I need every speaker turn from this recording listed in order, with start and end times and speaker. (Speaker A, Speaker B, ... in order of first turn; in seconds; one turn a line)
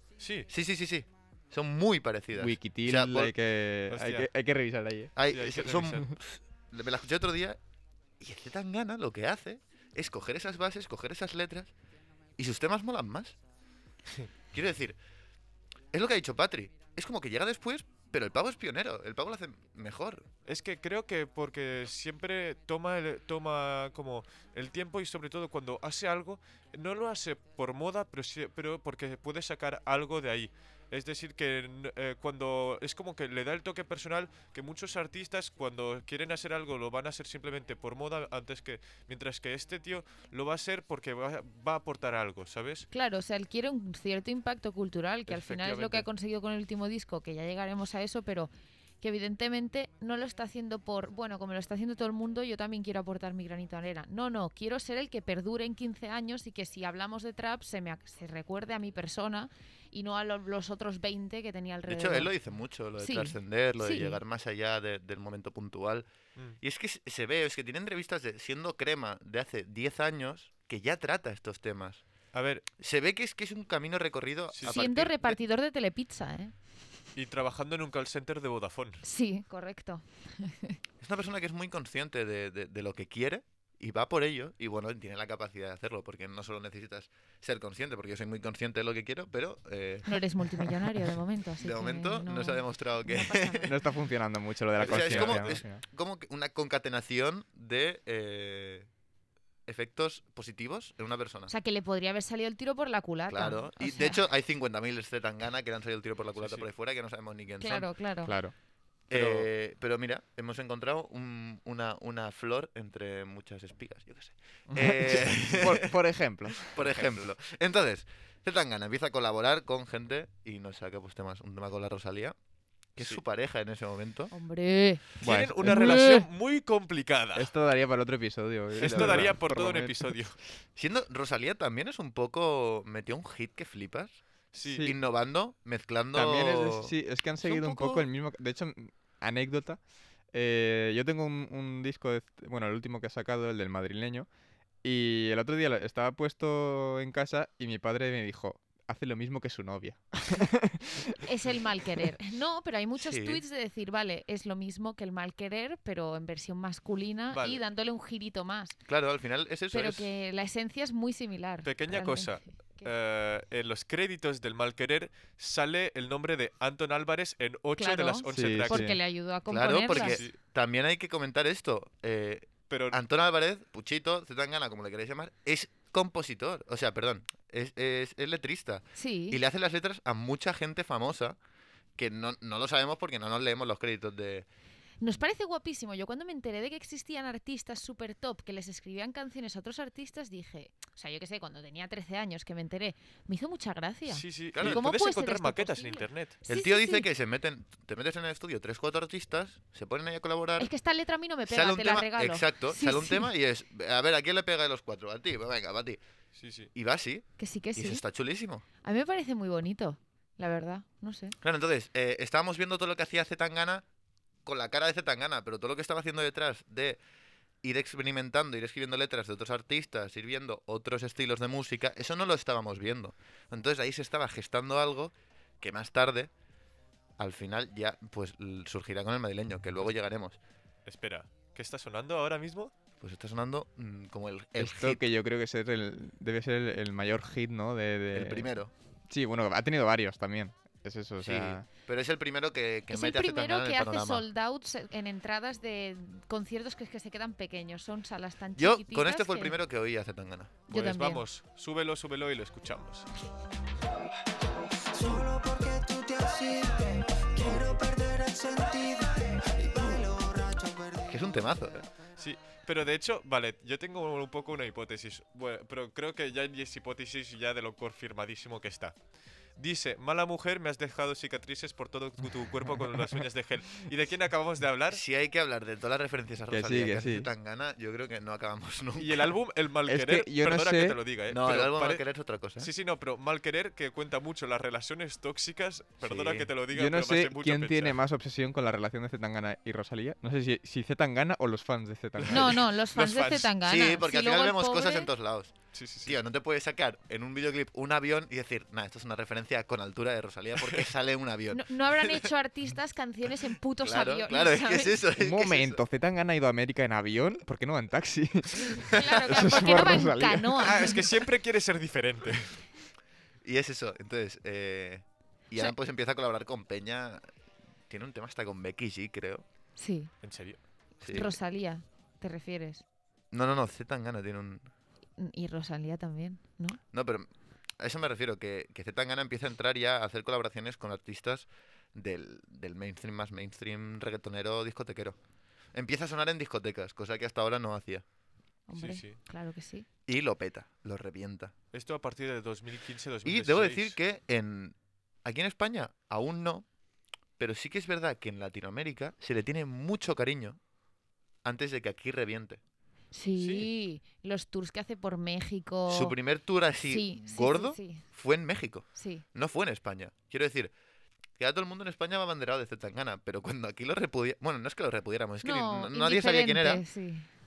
Speaker A: 0.2-0.5
Speaker B: 0.5-3.3
Speaker C: 2.3-5.1
Speaker A: 3.9-4.3
Speaker B: 5.2-7.6
Speaker A: 5.3-6.1
Speaker B: 8.2-11.7
Speaker B: 12.4-13.3
Speaker B: 14.5-15.0
Speaker B: 15.9-20.2
Speaker A: 20.4-42.9
Speaker D: 42.9-62.3
Speaker A: 45.3-46.1
Speaker B: 61.9-66.1
Speaker D: 63.0-64.2
Speaker B: 66.6-72.0
Speaker A: 72.3-72.7
Speaker B: 72.8-75.3
Speaker A: 74.5-74.8
Speaker D: 74.6-76.5
Speaker A: 77.1-79.0
Speaker D: 79.0-80.8
Speaker B: 81.0-90.2
Speaker D: 90.0-93.7
Speaker B: 91.6-93.7
Speaker C: 93.7-95.8
Speaker B: 94.8-98.9
Speaker A: 94.8-95.6
Speaker B: 99.7-101.5
Speaker D: 101.5-104.2
Speaker B: 103.3-107.9
Speaker A: 106.3-106.7
Speaker D: 107.6-108.3
Speaker C: 108.2-108.5
Speaker B: 109.1-115.9
Speaker A: 109.1-109.5
Speaker C: 114.7-117.3
Speaker B: 116.6-122.3
Speaker B: 123.0-124.3
Speaker D: 124.3-125.0
Speaker C: 125.2-126.2
Speaker A: 125.2-127.5
Speaker D: 125.6-126.2
Speaker C: 127.3-130.2
Speaker A: 128.8-130.4
Speaker B: 128.8-129.3
Speaker B: 130.8-134.2
Speaker A: 134.5-134.9
Speaker C: 134.6-135.0
Speaker B: 134.8-138.1
Speaker C: 136.1-139.8
Speaker C: 140.3-144.3
Speaker C: 144.8-151.2
Speaker D: 151.2-158.8
Speaker B: 153.0-153.4
Speaker A: 157.3-157.6
Speaker B: 158.9-160.1
Speaker D: 159.7-162.9
Speaker A: 161.6-168.8
Speaker D: 167.8-170.2
Speaker C: 168.3-169.0
Speaker B: 169.5-181.4
Speaker A: 169.9-170.3
Speaker A: 172.7-173.0
Speaker D: 178.9-179.4
Speaker B: 181.9-184.5
Speaker D: 185.0-197.1
Speaker A: 194.1-196.4
Speaker B: 194.5-194.8
Speaker B: 196.5-200.7
Speaker D: 200.6-203.3
Speaker B: 201.5-206.0
Speaker A: 206.3-206.7
Speaker B: 206.7-208.6
Speaker D: 207.4-208.0
Speaker D: 208.8-211.3
Speaker B: 211.4-213.8
Speaker B: 214.4-217.0
Speaker B: 217.6-226.3
Speaker B: 227.2-230.4
Speaker A: 230.8-232.7
Speaker B: 233.0-235.0
Speaker C: 234.6-238.5
Speaker B: 238.1-238.7
Speaker C: 239.1-241.7
Speaker B: 241.2-244.2
Speaker D: 242.9-249.6
Speaker B: 248.6-250.5
Speaker D: 250.7-251.2
Speaker A: 250.7-253.1
Speaker E: 254.9-261.7
Speaker B: 261.1-261.8
Speaker A: 262.2-268.9
Speaker A: 269.6-275.0
Speaker B: 274.9-279.3
Speaker C: 276.5-277.3
Speaker A: 279.0-282.0
Speaker C: 279.9-281.0
Speaker B: 281.3-282.7
Speaker A: 282.6-288.0
Speaker B: 286.0-286.5
Speaker C: 286.7-292.6
Speaker A: 292.2-293.5
Speaker D: 292.3-295.1
Speaker B: 293.6-295.5
Speaker A: 295.7-296.2
Speaker B: 296.1-302.3
Speaker A: 300.6-300.9
Speaker D: 301.5-305.0
Speaker B: 303.8-305.8
Speaker C: 305.1-311.1
Speaker D: 308.9-311.0
Speaker A: 310.6-312.6
Speaker B: 313.4-317.2
Speaker B: 317.9-319.4
Speaker D: 319.8-320.1
Speaker A: 320.2-320.6
Speaker B: 321.0-321.3
Speaker D: 321.0-322.8
Speaker B: 323.3-324.7
Speaker D: 325.2-326.8
Speaker B: 326.9-335.2
Speaker B: 335.7-338.0
Speaker D: 338.7-339.9
Speaker A: 338.8-339.2
Speaker B: 340.1-341.5
Speaker A: 341.7-344.0
Speaker B: 343.2-346.6
Speaker B: 347.4-350.6
Speaker B: 351.4-352.6
Speaker D: 353.1-356.1
Speaker A: 353.4-353.7
Speaker B: 355.9-360.7
Speaker D: 356.8-358.0
Speaker D: 358.9-359.2
Speaker B: 361.4-366.8
Speaker D: 365.4-367.3